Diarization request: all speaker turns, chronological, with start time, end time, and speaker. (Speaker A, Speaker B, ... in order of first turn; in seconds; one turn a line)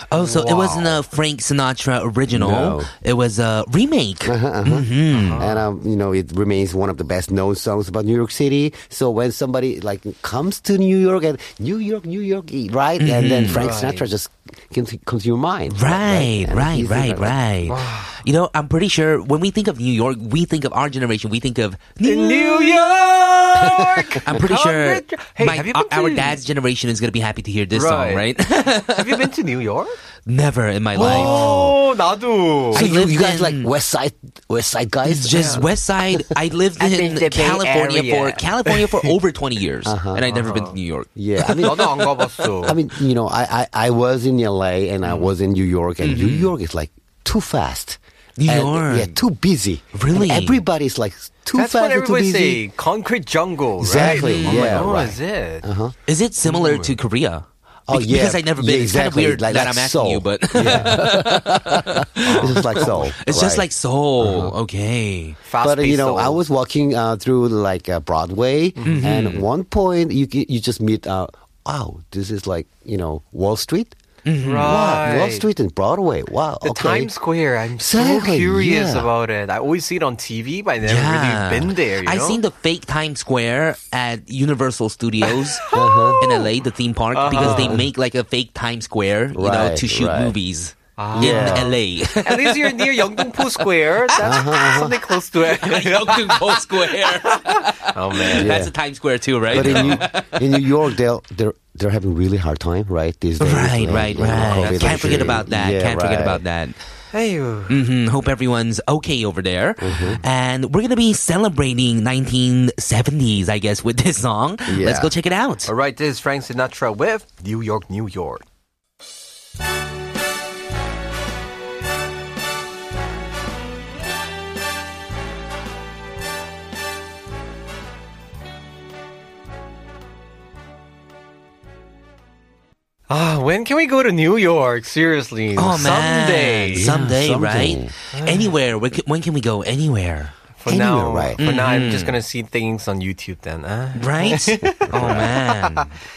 Speaker A: 0.1-5.4
Speaker B: 0.1-1.0
Speaker C: 2.3-2.9
Speaker C: 4.2-17.4
Speaker B: 5.1-5.7
Speaker A: 13.0-13.6
Speaker B: 13.4-14.0
Speaker A: 15.7-29.3
Speaker B: 17.7-18.2
Speaker B: 22.0-26.4
Speaker C: 23.6-24.2
Speaker B: 27.7-28.3
Speaker B: 28.8-30.0
Speaker A: 30.2-31.7
Speaker B: 30.9-32.9
Speaker C: 31.0-31.7
Speaker C: 32.7-35.7
Speaker A: 32.7-33.7
Speaker A: 35.0-42.5
Speaker B: 35.3-35.6
Speaker B: 36.8-39.1
Speaker C: 39.8-40.2
Speaker B: 40.3-40.8
Speaker C: 41.1-42.0
Speaker B: 41.6-42.8
Speaker C: 42.6-52.6
Speaker A: 46.0-46.5
Speaker A: 48.4-49.2
Speaker A: 49.9-50.6
Speaker B: 51.5-55.6
Speaker C: 53.8-55.9
Speaker A: 53.9-54.9
Speaker A: 56.0-65.4
Speaker B: 56.4-57.0
Speaker C: 57.9-63.6
Speaker B: 60.6-60.9
Speaker B: 62.2-63.1
Speaker C: 64.2-64.5
Speaker B: 65.5-66.4
Speaker C: 65.6-74.0
Speaker B: 68.7-69.1
Speaker A: 68.8-69.5
Speaker A: 74.2-74.8
Speaker B: 74.4-75.5
Speaker C: 74.6-77.1
Speaker B: 76.6-82.4
Speaker C: 77.8-79.1
Speaker A: 80.8-93.6
Speaker B: 85.2-86.5
Speaker C: 85.7-86.2
Speaker B: 87.1-87.8
Speaker C: 87.3-87.9
Speaker C: 89.3-90.3
Speaker B: 91.0-98.6
Speaker C: 91.1-91.7
Speaker A: 94.2-94.9
Speaker C: 94.2-94.9
Speaker A: 95.4-100.6
Speaker C: 98.3-98.7
Speaker C: 99.5-106.4
Speaker B: 99.5-100.0
Speaker A: 103.4-106.8
Speaker B: 104.3-105.2
Speaker B: 107.1-107.8
Speaker A: 107.7-115.7
Speaker C: 109.8-110.2
Speaker C: 114.7-115.1
Speaker B: 115.7-118.4
Speaker B: 133.1-136.9
Speaker A: 135.6-140.3
Speaker C: 136.7-137.9
Speaker B: 138.1-138.5
Speaker B: 140.6-145.9
Speaker C: 140.7-141.4
Speaker A: 141.4-142.2
Speaker A: 143.9-145.9
Speaker C: 144.9-145.3